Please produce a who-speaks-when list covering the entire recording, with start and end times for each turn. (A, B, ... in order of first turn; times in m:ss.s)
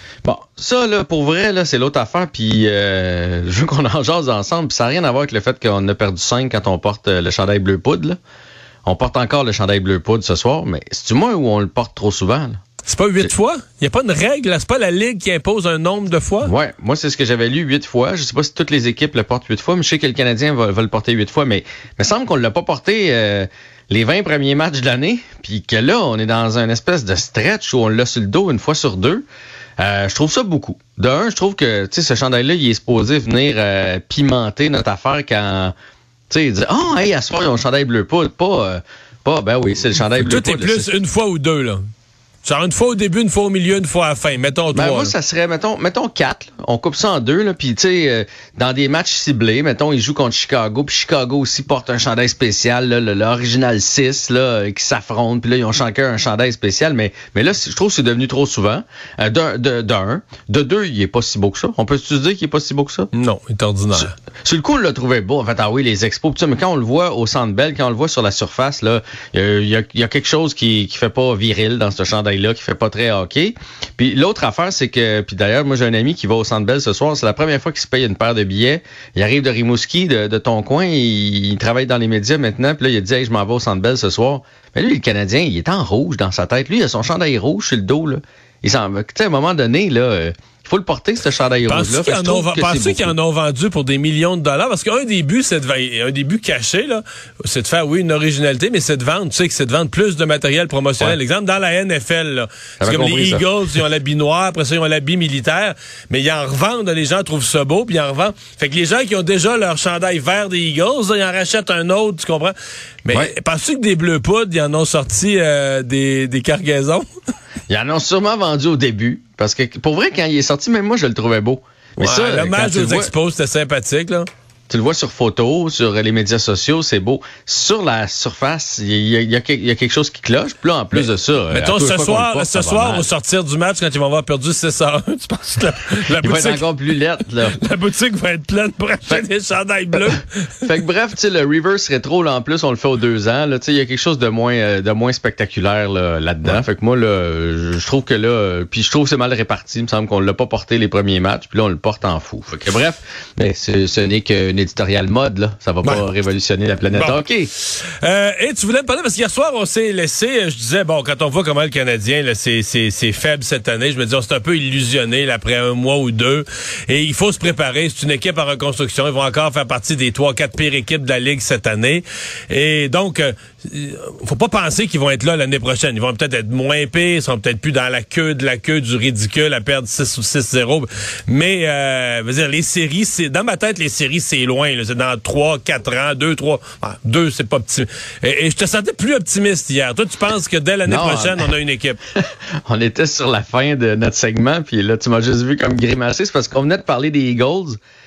0:00.2-0:08.2 A
0:08.8-0:12.6 A
0:12.9-0:16.5 B
0:16.4-0:29.2 A
0:29.8-0:35.7 A
0:36.3-0:41.0 A
0:40.2-0:41.8 B
0:42.4-0:45.1 B
0:44.7-1:03.1 A
1:03.1-1:04.1 B
1:03.9-1:33.1 A
1:31.7-1:57.1 B
1:42.8-1:43.5 A
1:57.7-2:03.1 A
2:02.0-2:04.3 B
2:04.7-2:13.1 A
2:10.9-2:16.7 B
2:16.2-2:17.6 A
2:17.5-2:20.7 B
2:20.6-2:37.5 A
2:36.9-2:37.2 B
2:38.0-3:12.0 B
3:10.9-3:11.5 A
3:12.2-3:17.8 A